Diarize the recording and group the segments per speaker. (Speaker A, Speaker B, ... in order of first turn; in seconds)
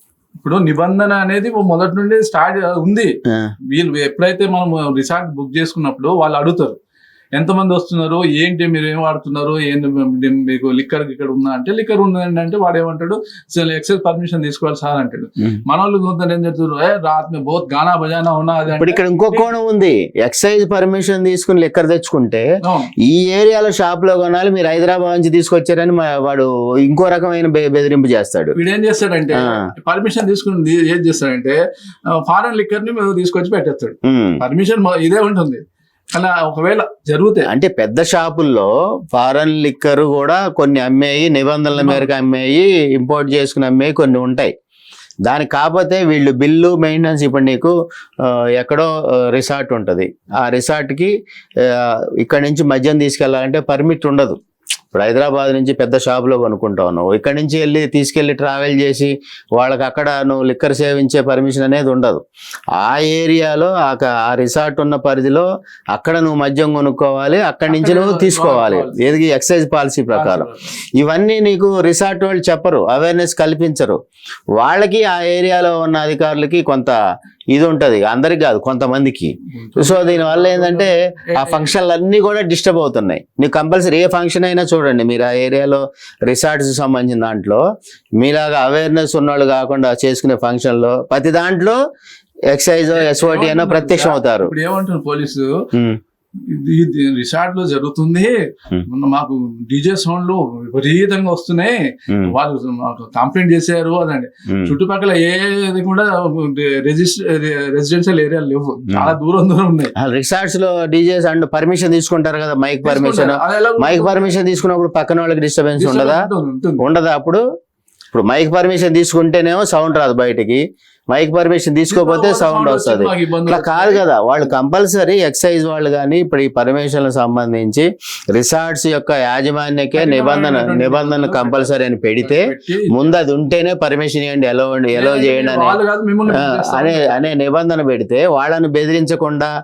Speaker A: 0.4-3.1, 3.7-6.8, 7.4-19.5, 22.6-22.9, 28.6-31.6, 32.1-35.6, 36.1-37.5, 41.7-42.1, 67.7-69.0, 70.1-70.7, 79.6-81.8, 92.9-95.6, 96.4-109.9, 112.8-114.4, 115.8-116.8, 121.9-124.0, 129.9-133.1, 134.9-137.2
Speaker B: 18.7-22.5, 23.1-28.6, 29.3-29.6, 34.0-34.4, 37.5-44.5, 45.3-47.7, 48.2-54.4, 54.9-62.2, 62.8-70.5, 71.0-74.0, 74.6-77.0, 77.5-87.6, 88.2-91.8, 92.5-94.5, 95.7-96.0, 104.5-104.7, 110.0-116.2, 116.8-117.4, 118.1-135.8, 136.4-139.5